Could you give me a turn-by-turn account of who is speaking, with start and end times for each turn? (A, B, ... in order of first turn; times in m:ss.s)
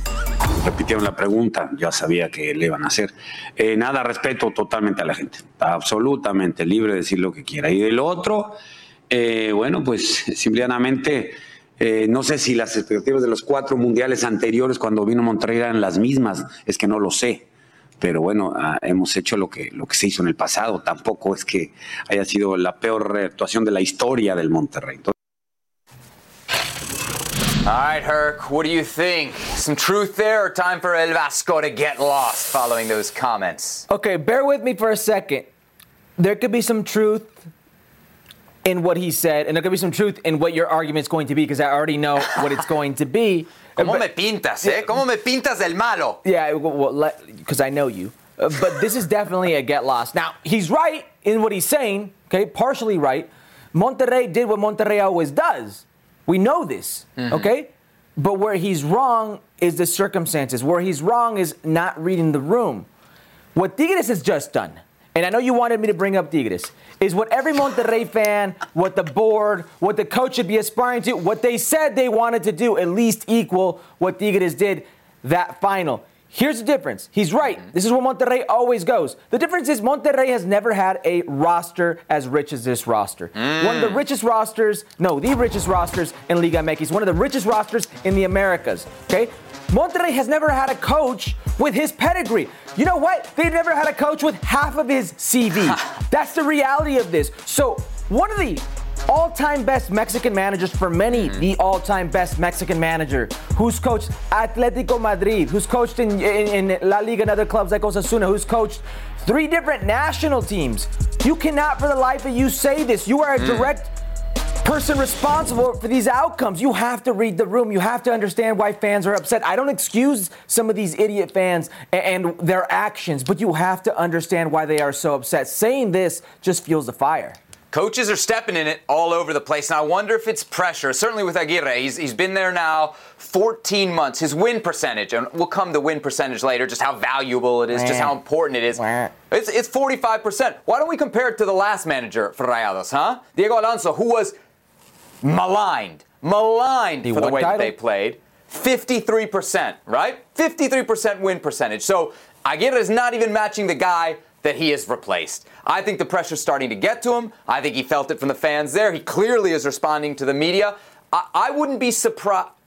0:00.6-0:08.6 A
0:09.1-0:17.4 A
0:18.0-0:25.1 A
0:27.6-0:33.8 B
0:33.9-0:35.5 C
0:36.2-0:37.4 C
0:38.6-0:44.0 C
0:43.8-0:46.2 B
0:44.6-0:45.0 C
0:46.2-1:02.9 C
0:57.2-0:57.5 B
1:03.5-1:53.9 C
1:23.4-1:24.0 B
1:53.4-1:53.7 B
1:54.6-2:07.4 C
2:07.7-2:24.4 B
2:17.7-2:18.2 C
2:18.7-2:19.1 C
2:25.2-2:42.5 B
2:27.0-2:27.7 C